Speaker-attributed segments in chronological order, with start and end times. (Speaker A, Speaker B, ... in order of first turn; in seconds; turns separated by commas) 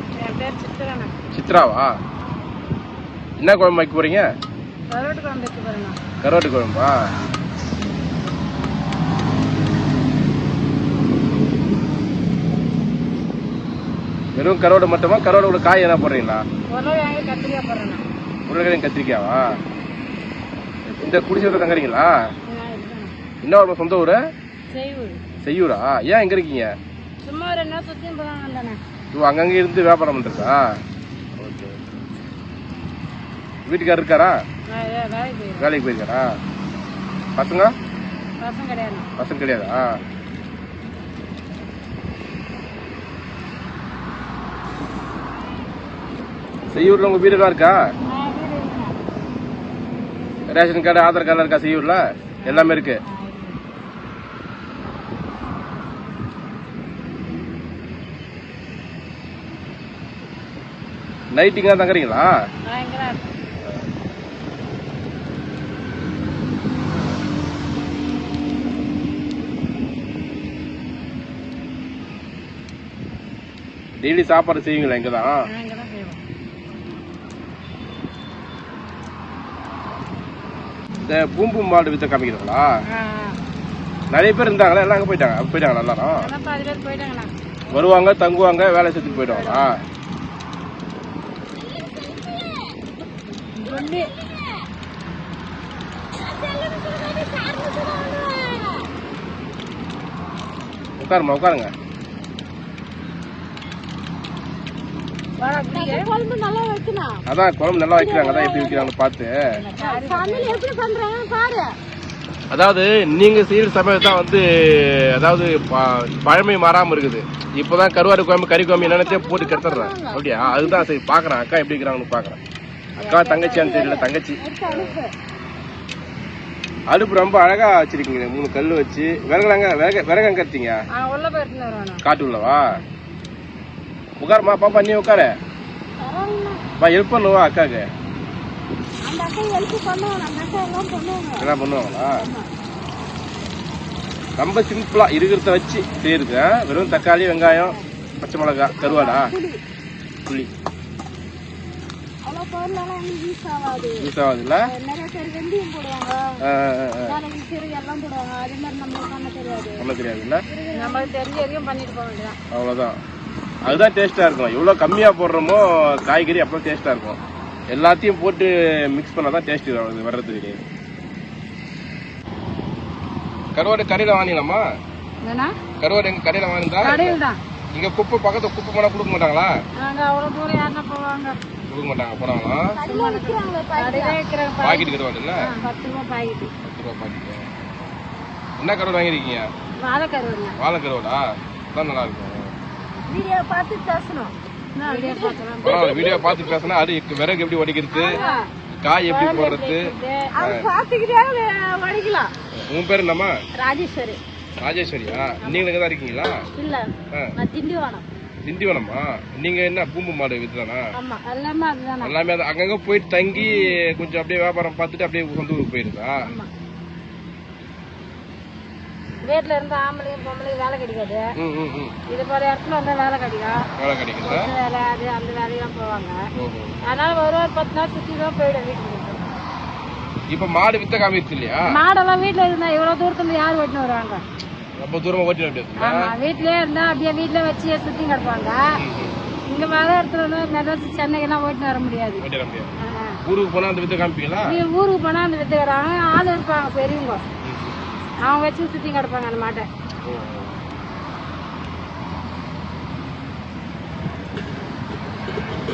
Speaker A: 0.2-1.2, Speaker B: 1.3-1.9, Speaker B: 3.4-4.2, Speaker A: 4.9-6.0, Speaker B: 6.2-6.9, Speaker B: 14.3-16.4, Speaker A: 16.7-18.0, Speaker B: 18.5-19.4, Speaker B: 20.9-22.1, Speaker A: 22.5-23.1, Speaker B: 23.4-24.2, Speaker A: 24.7-25.2, Speaker B: 25.4-26.7, Speaker A: 27.2-28.8, Speaker B: 29.1-30.6, Speaker B: 31.4-31.8, Speaker B: 33.7-34.3, Speaker A: 34.7-35.7, Speaker B: 35.6-36.3, Speaker B: 37.4-37.7, Speaker A: 38.4-39.1, Speaker B: 39.2-39.8, Speaker B: 46.7-47.8, Speaker A: 48.0-49.0, Speaker B: 50.5-53.0, Speaker A: 52.4-53.6, Speaker B: 61.3-62.3, Speaker A: 62.7-63.3, Speaker B: 74.0-75.4, Speaker A: 75.5-76.2, Speaker B: 81.0-82.7, Speaker A: 82.9-83.4, Speaker B: 84.1-86.3, Speaker A: 86.2-87.3, Speaker B: 87.7-89.7, Speaker A: 89.0-89.7, Speaker C: 91.7-92.6, Speaker A: 93.6-94.1, Speaker C: 93.6-94.4, Speaker A: 96.2-98.3, Speaker C: 97.3-98.9, Speaker B: 101.0-101.7, Speaker A: 105.4-106.1, Speaker C: 105.7-107.2, Speaker B: 107.3-109.3, Speaker C: 107.9-108.9, Speaker A: 109.5-110.6, Speaker C: 109.8-111.7, Speaker B: 112.5-122.4, Speaker C: 118.7-120.8, Speaker A: 123.0-123.7, Speaker B: 123.0-125.0, Speaker C: 123.5-125.1, Speaker B: 126.9-130.8, Speaker A: 130.9-132.0, Speaker B: 132.0-132.7, Speaker B: 134.2-135.3, Speaker C: 136.0-136.6, Speaker B: 136.8-137.8, Speaker C: 139.0-141.5, Speaker B: 141.4-142.2, Speaker C: 142.2-142.4, Speaker B: 144.4-149.3, Speaker C: 147.5-147.8, Speaker C: 148.7-149.6, Speaker C: 152.2-154.1, Speaker B: 154.0-154.7, Speaker C: 154.7-156.4, Speaker B: 156.4-157.2, Speaker C: 157.0-159.9, Speaker B: 159.8-160.4, Speaker C: 160.5-161.1, Speaker A: 160.7-162.4, Speaker B: 162.5-163.0, Speaker B: 163.6-167.2, Speaker B: 167.7-170.6, Speaker B: 173.6-174.6, Speaker A: 175.2-175.5, Speaker B: 175.8-177.2, Speaker A: 176.8-177.4, Speaker B: 177.7-179.5, Speaker A: 179.8-181.3, Speaker B: 181.7-182.7, Speaker C: 182.7-184.2, Speaker A: 182.8-184.9, Speaker B: 184.6-185.5, Speaker A: 185.6-186.5, Speaker B: 186.6-187.6, Speaker B: 188.6-189.5, Speaker A: 189.8-190.6, Speaker B: 190.6-192.5, Speaker C: 193.1-196.7, Speaker A: 194.8-195.9, Speaker B: 195.6-198.2, Speaker C: 197.9-198.4, Speaker A: 198.1-198.4, Speaker B: 198.8-199.8, Speaker A: 199.1-200.3, Speaker C: 200.3-202.3, Speaker B: 200.4-200.7, Speaker B: 202.6-203.3, Speaker C: 203.6-204.2, Speaker B: 204.6-206.4, Speaker C: 206.5-208.0, Speaker B: 208.4-210.9, Speaker C: 210.9-211.2, Speaker A: 211.2-212.1, Speaker B: 212.0-216.2, Speaker C: 213.4-213.7, Speaker A: 219.2-221.2, Speaker B: 221.4-221.9, Speaker A: 222.1-223.6, Speaker B: 223.8-224.5, Speaker A: 224.2-226.2, Speaker B: 226.4-226.8, Speaker A: 226.8-229.4, Speaker B: 230.3-231.7, Speaker A: 231.7-234.2, Speaker B: 234.8-236.1, Speaker A: 235.8-238.6, Speaker B: 238.8-239.2, Speaker A: 239.5-242.2, Speaker B: 242.2-242.7, Speaker A: 242.8-243.2, Speaker B: 243.2-244.6, Speaker A: 244.4-247.2, Speaker B: 247.4-247.8, Speaker A: 248.2-249.7, Speaker B: 250.0-250.6